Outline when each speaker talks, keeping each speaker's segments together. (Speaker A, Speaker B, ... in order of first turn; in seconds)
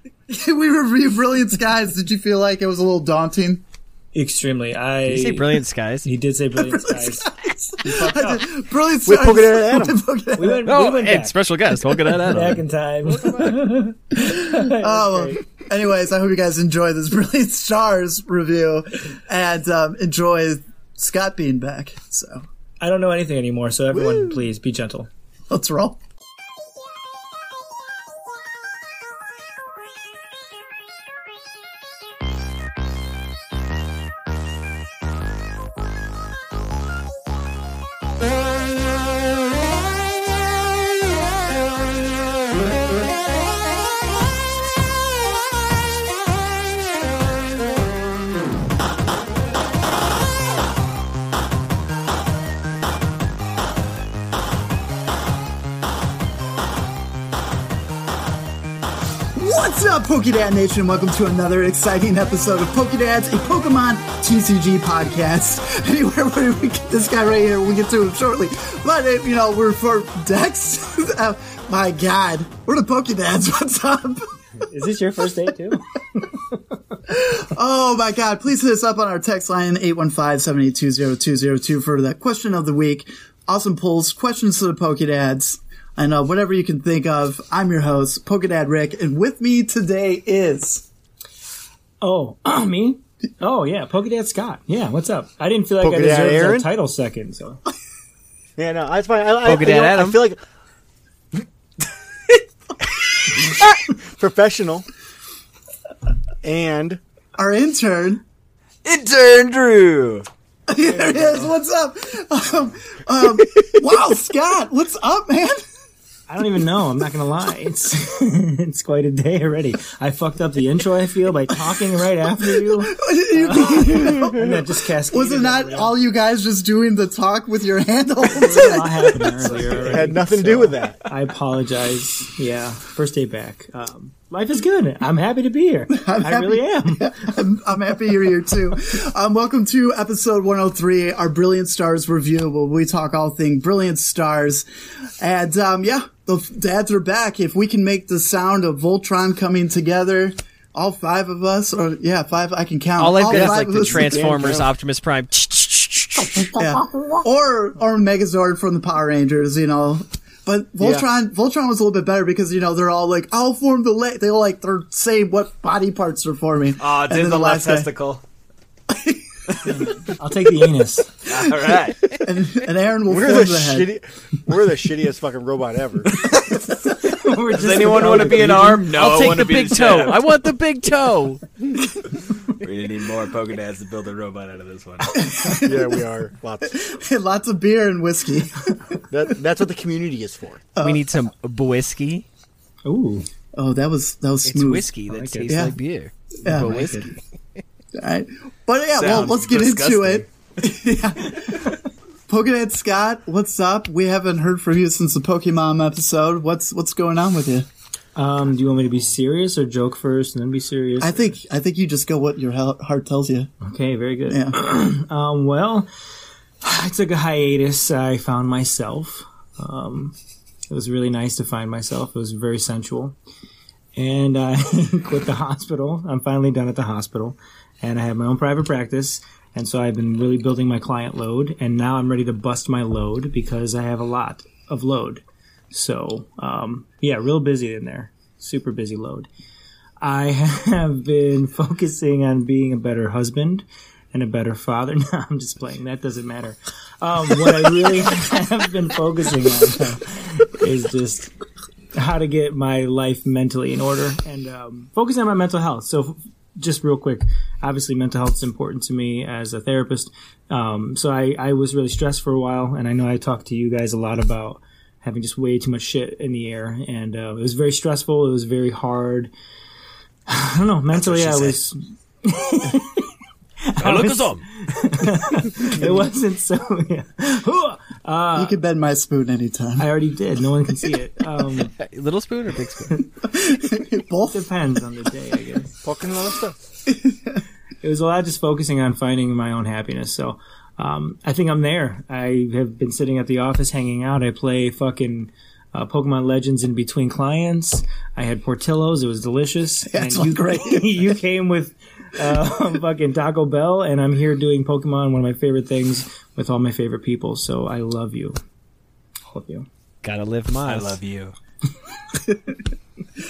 Speaker A: 0.3-3.6, 6.5-10.7, 14.1-22.4, 25.5-26.0, 59.3-74.3, 77.1-90.9, 107.4-108.2, 110.7-115.6, 122.4-129.6, 135.9-144.7, 145.2-154.3, 156.5-167.9, 168.9-169.2, 171.6-173.9, 185.1-185.8, 186.7-189.0, 190.8-191.1, 193.6-194.9, 195.4-195.7, 196.4-196.7, 197.9-201.7, 202.3-207.7, 211.0-213.5, 214.3-214.5, 278.3-279.9, 283.2-284.5, 299.9-301.2
Speaker B: 4.1-8.5, 10.4-15.4, 22.8-25.1, 74.6-76.6, 92.0-97.6, 110.9-111.5, 116.3-126.0, 128.3-137.3, 169.6-171.2, 176.9-178.8, 192.8-193.3, 195.1-195.5, 196.5-197.1, 208.2-211.3, 213.6-215.9, 216.6-220.2, 220.7-223.2, 223.9-239.3, 240.0-251.3, 251.9-269.3, 270.3-273.1, 273.6-278.6, 279.8-281.7, 284.3-285.8, 287.8-308.4, 309.3-309.6
Speaker C: 5.0-6.1, 10.6-13.8, 99.4-100.3, 153.0-156.4, 177.7-181.4, 190.8-192.3, 194.4-197.1, 273.8-274.4, 281.7-283.0, 310.0-311.0
Speaker D: 9.1-10.0, 23.9-24.4, 95.8-96.7, 98.6-100.4, 103.3-104.9, 106.4-107.0, 129.6-131.0, 153.3-154.7, 160.8-161.1, 173.1-176.3, 185.5-186.8, 189.1-190.6, 285.8-286.6
Speaker E: 108.8-110.2, 166.8-168.2, 171.2-172.2, 177.5-180.3, 182.5-185.2, 198.9-200.3, 270.9-271.6, 310.6-311.4